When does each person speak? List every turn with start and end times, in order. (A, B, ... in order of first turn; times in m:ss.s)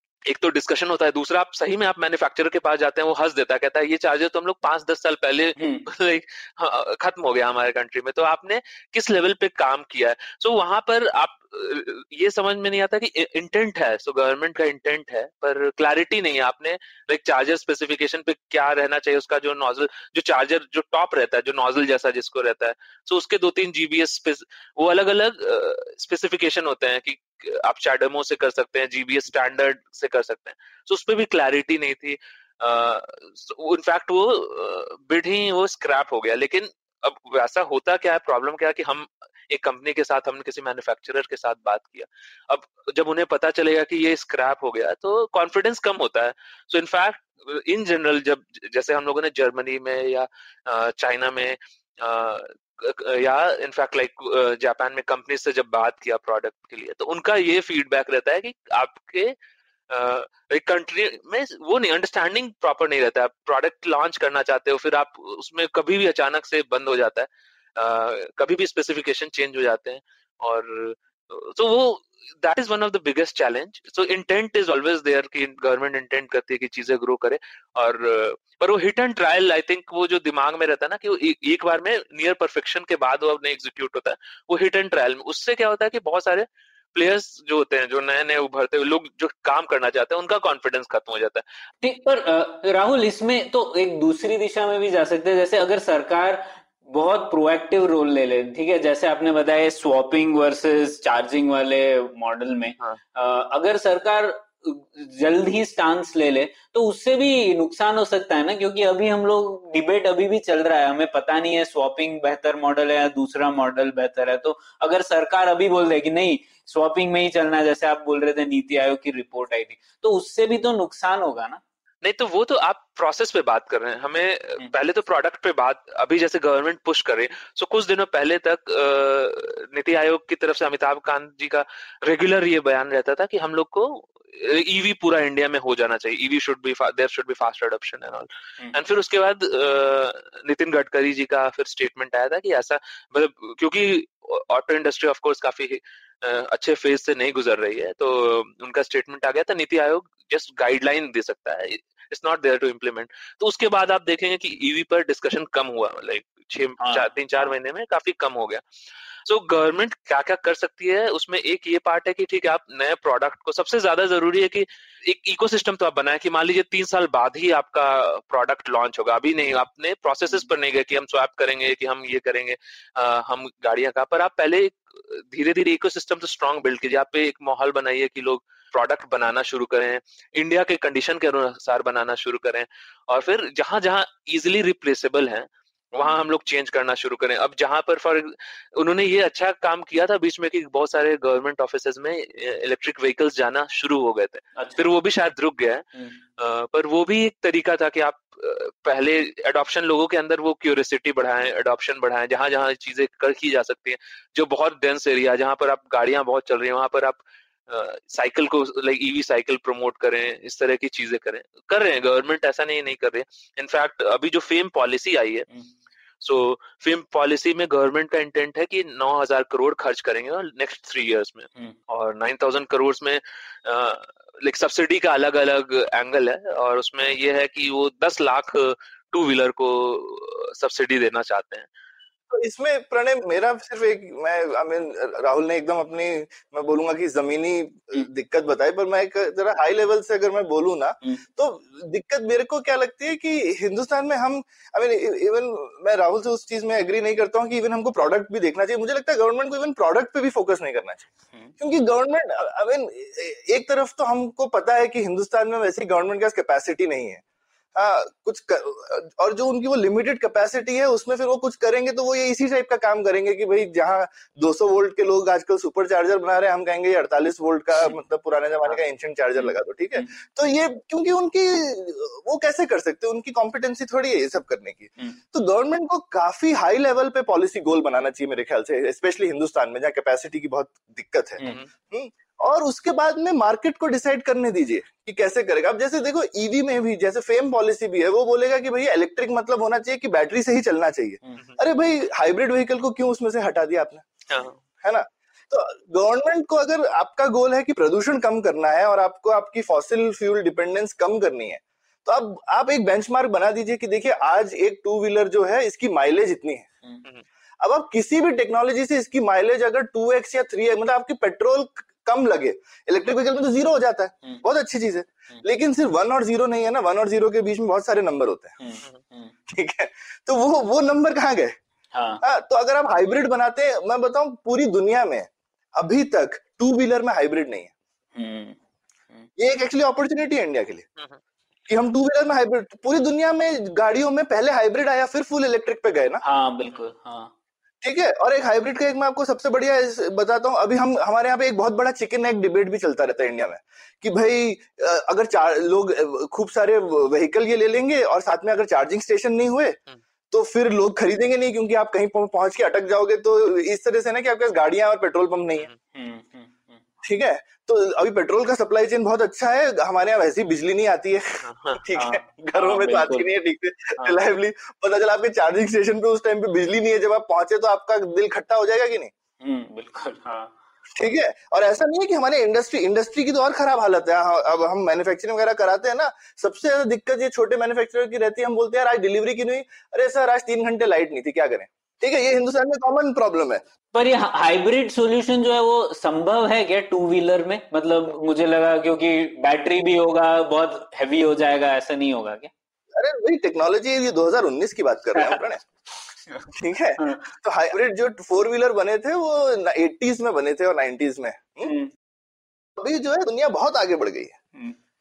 0:00.3-0:59.4 A
0:05.6-0:05.9 B
0:59.9-1:31.4 A
1:31.8-2:01.6 B
2:02.0-2:38.6 A
2:36.8-2:37.5 B
2:39.2-3:15.9 A
3:16.4-3:35.5 A
3:36.2-3:51.7 A
3:52.3-4:11.1 C
4:11.6-4:17.2 C
4:17.8-4:54.0 C
4:54.3-4:54.6 A
4:54.8-5:06.7 C
5:07.6-5:18.6 C
5:18.6-5:19.3 B
5:19.5-5:21.6 C
5:21.9-5:22.2 B
5:22.2-5:27.7 C
5:28.2-5:28.6 B
5:29.4-5:30.8 C
5:31.7-5:36.2 C
5:36.2-5:37.3 B
5:37.8-5:49.8 C
5:50.3-5:55.7 C
5:55.9-5:56.8 B
5:57.0-6:09.1 C
6:01.4-6:01.8 A
6:01.9-6:03.3 B
6:09.4-6:10.6 B
6:11.0-6:23.6 C
6:23.9-6:32.5 B
6:33.0-6:35.6 C
6:35.2-6:35.5 B
6:36.3-6:37.2 B
6:36.5-6:41.7 C
6:41.6-6:41.9 B
6:42.8-6:44.4 C